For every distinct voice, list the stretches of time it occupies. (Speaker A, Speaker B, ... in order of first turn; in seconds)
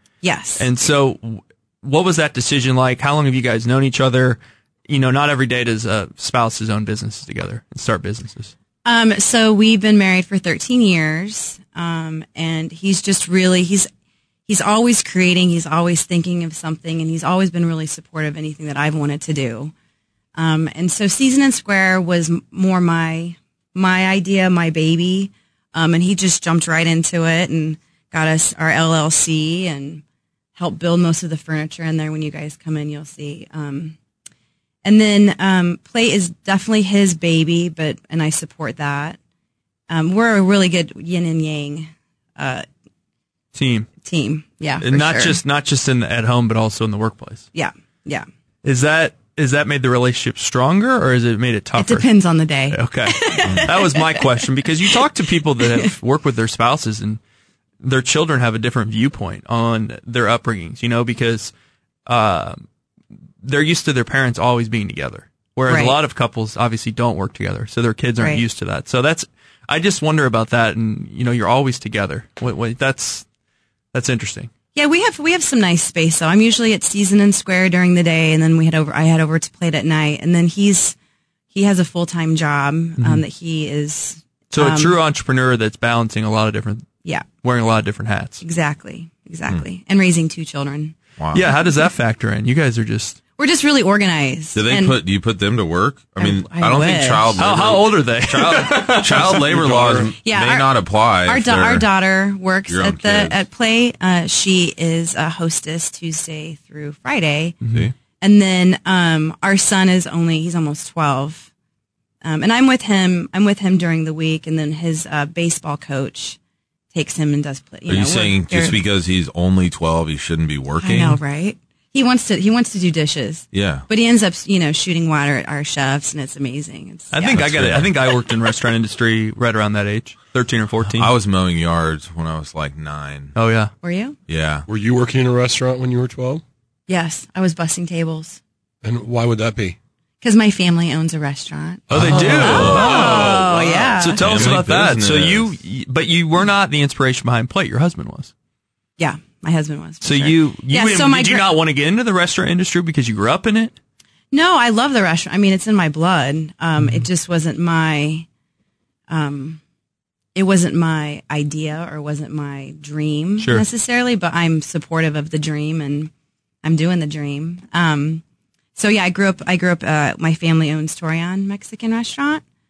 Speaker A: 0.2-0.7, 8.8-13.9, 14.5-19.7, 20.4-30.0, 30.6-34.0, 34.8-39.2, 39.9-42.6, 44.0-45.4, 47.5-48.3, 51.8-54.3, 55.6-55.9, 65.7-66.0, 74.7-81.0, 81.5-85.0, 88.4-90.9, 93.4-95.0, 96.2-97.4, 100.2-100.7, 101.2-107.6, 108.2-111.5, 112.2-116.4, 116.9-118.8, 120.8-127.5, 133.8-134.2, 136.9-138.4, 140.2-144.3, 149.0-151.5, 154.3-158.2, 159.1-159.6, 160.3-166.1, 166.6-168.2, 168.8-172.4
Speaker B: 0.6-8.5, 43.5-43.9, 44.8-47.5, 48.6-52.1, 52.7-57.2, 57.8-61.5, 62.1-62.6, 63.4-73.2, 73.9-74.5, 83.0-83.2, 84.5-86.9, 87.4-88.4, 91.3-93.2, 97.4-99.4, 107.6-107.9, 127.1-131.1, 133.3-133.7, 141.9-143.4, 144.0-148.3, 150.0-153.7, 156.8-157.1, 163.4-163.6
Speaker C: 91.2-91.5, 94.5-101.9, 102.7-103.4, 117.9-121.2, 123.5-123.9, 127.3-127.9, 130.9-133.3, 134.3-134.7, 141.9-143.5, 144.2-145.5
Speaker D: 99.1-100.1, 134.7-136.4, 138.8-139.8, 141.9-144.5